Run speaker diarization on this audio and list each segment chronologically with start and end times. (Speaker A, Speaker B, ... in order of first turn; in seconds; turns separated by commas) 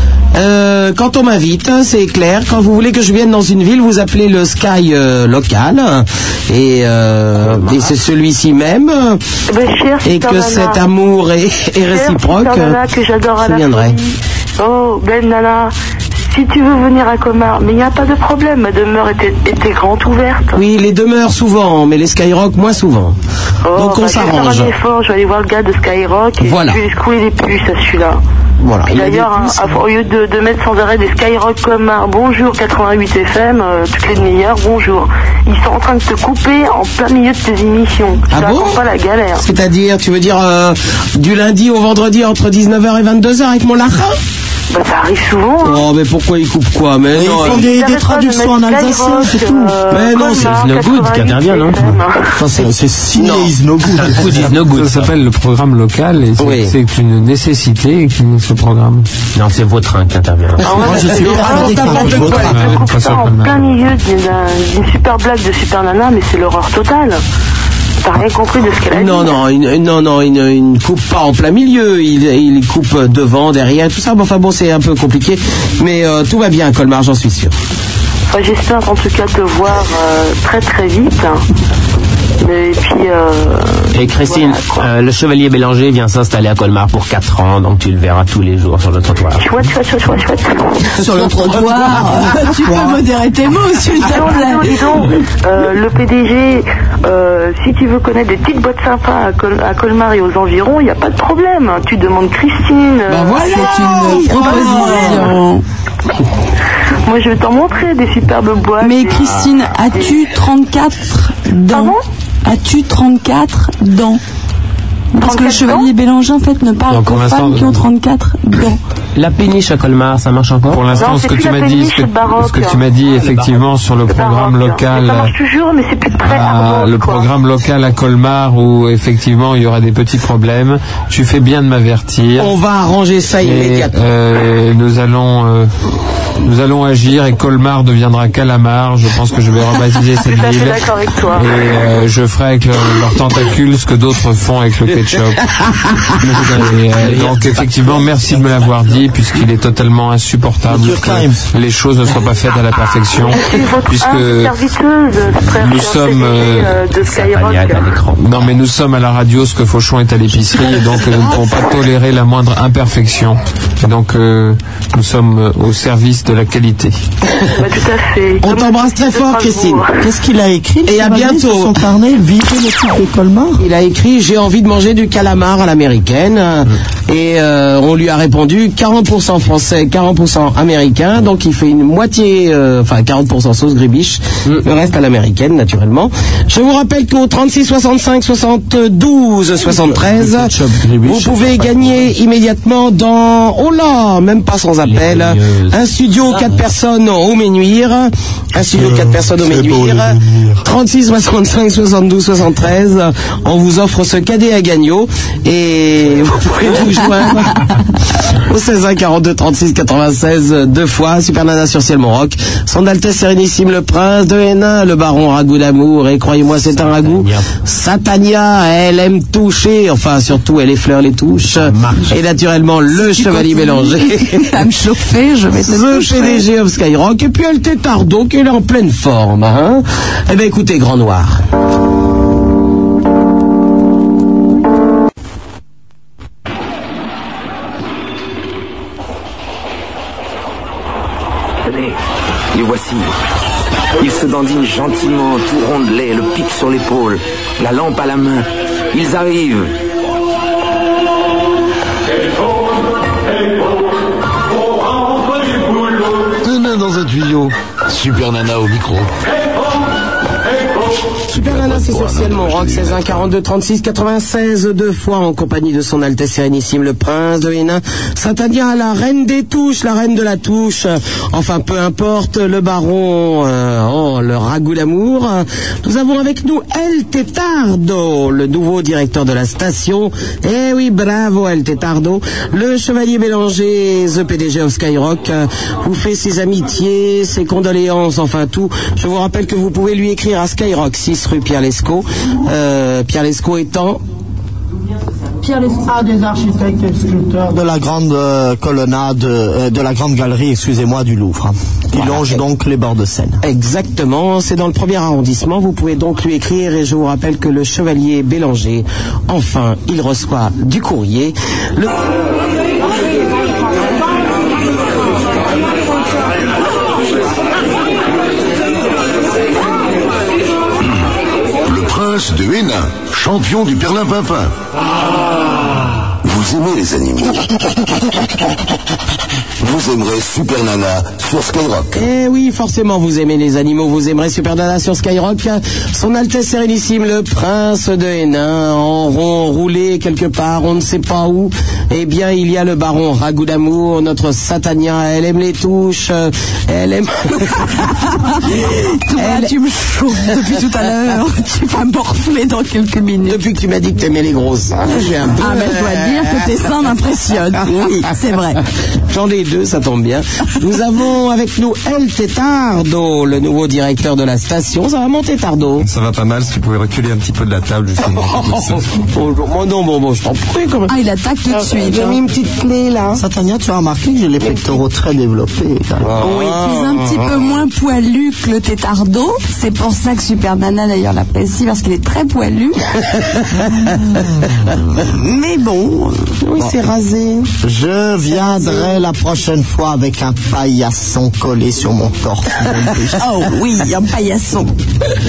Speaker A: 0.3-9.2, Speaker B: 9.5-10.8, Speaker A: 10.0-12.8, Speaker B: 11.9-15.7, Speaker A: 13.4-14.0, Speaker B: 16.3-20.6, Speaker A: 20.5-23.1, Speaker B: 23.6-28.2, Speaker A: 23.7-24.7, Speaker A: 26.4-26.8, Speaker A: 28.6-29.8, Speaker B: 28.8-39.4, Speaker A: 38.3-38.8, Speaker A: 39.4-44.2, Speaker B: 44.7-45.9, Speaker A: 45.6-47.7, Speaker C: 47.1-49.8, Speaker B: 47.3-52.4, Speaker A: 49.9-50.6, Speaker D: 50.3-52.0, Speaker C: 52.4-54.5, Speaker A: 52.5-53.5, Speaker D: 54.0-55.1, Speaker E: 54.7-59.1, Speaker A: 56.4-56.7, Speaker D: 59.3-61.1, Speaker A: 60.6-62.6, Speaker B: 60.6-67.2, Speaker C: 60.8-62.8, Speaker E: 62.0-63.6, Speaker B: 68.0-69.4, Speaker A: 68.9-77.5, Speaker B: 78.3-81.4, Speaker B: 82.4-84.9, Speaker D: 83.9-89.5, Speaker B: 89.4-90.9, Speaker F: 91.0-94.8, Speaker C: 91.4-92.0, Speaker C: 92.6-93.0, Speaker B: 94.0-105.3, Speaker A: 103.1-105.3, Speaker F: 103.3-105.6, Speaker B: 107.0-110.2, Speaker F: 108.8-114.2, Speaker B: 111.7-112.0, Speaker F: 115.1-118.8, Speaker B: 115.2-115.9, Speaker E: 116.9-117.8, Speaker D: 119.2-121.1, Speaker E: 120.7-125.3, Speaker B: 121.0-122.8, Speaker B: 124.1-127.3, Speaker E: 126.2-132.5, Speaker A: 132.4-133.9, Speaker E: 133.4-135.7, Speaker E: 136.4-145.5, Speaker B: 140.2-141.5, Speaker D: 146.3-147.6, Speaker E: 146.4-154.5, Speaker C: 150.7-151.4, Speaker B: 153.3-157.9, Speaker E: 155.4-156.8, Speaker D: 157.0-158.5, Speaker E: 158.2-166.9, Speaker B: 167.6-170.0, Speaker A: 168.4-169.8, Speaker C: 170.0-173.6, Speaker A: 170.9-171.7, Speaker A: 173.6-207.6, Speaker D: 194.8-195.8, Speaker A: 208.4-224.5, Speaker D: 216.6-217.5, Speaker D: 221.5-222.2, Speaker F: 222.9-226.5, Speaker A: 225.6-231.4, Speaker G: 241.6-242.0, Speaker G: 242.5-243.1, Speaker G: 244.0-249.7, Speaker H: 256.4-259.1, Speaker A: 261.3-294.0, Speaker H: 261.4-263.2, Speaker C: 295.4-303.4, Speaker A: 301.9-302.4, Speaker A: 303.4-312.0, Speaker H: 321.6-324.5, Speaker H: 326.2-327.5, Speaker H: 329.6-331.9, Speaker A: 331.9-347.6, Speaker F: 348.4-353.4, Speaker A: 349.1-349.5, Speaker A: 353.2-356.4, Speaker F: 355.4-358.6, Speaker A: 357.6-358.1, Speaker A: 359.1-365.9, Speaker I: 365.8-368.8, Speaker A: 368.2-370.9, Speaker F: 370.9-372.2, Speaker A: 371.5-373.2, Speaker C: 373.1-376.2, Speaker A: 376.0-377.3, Speaker F: 376.2-382.8, Speaker F: 385.0-386.4, Speaker A: 386.4-387.5, Speaker C: 387.6-393.2, Speaker F: 393.2-394.7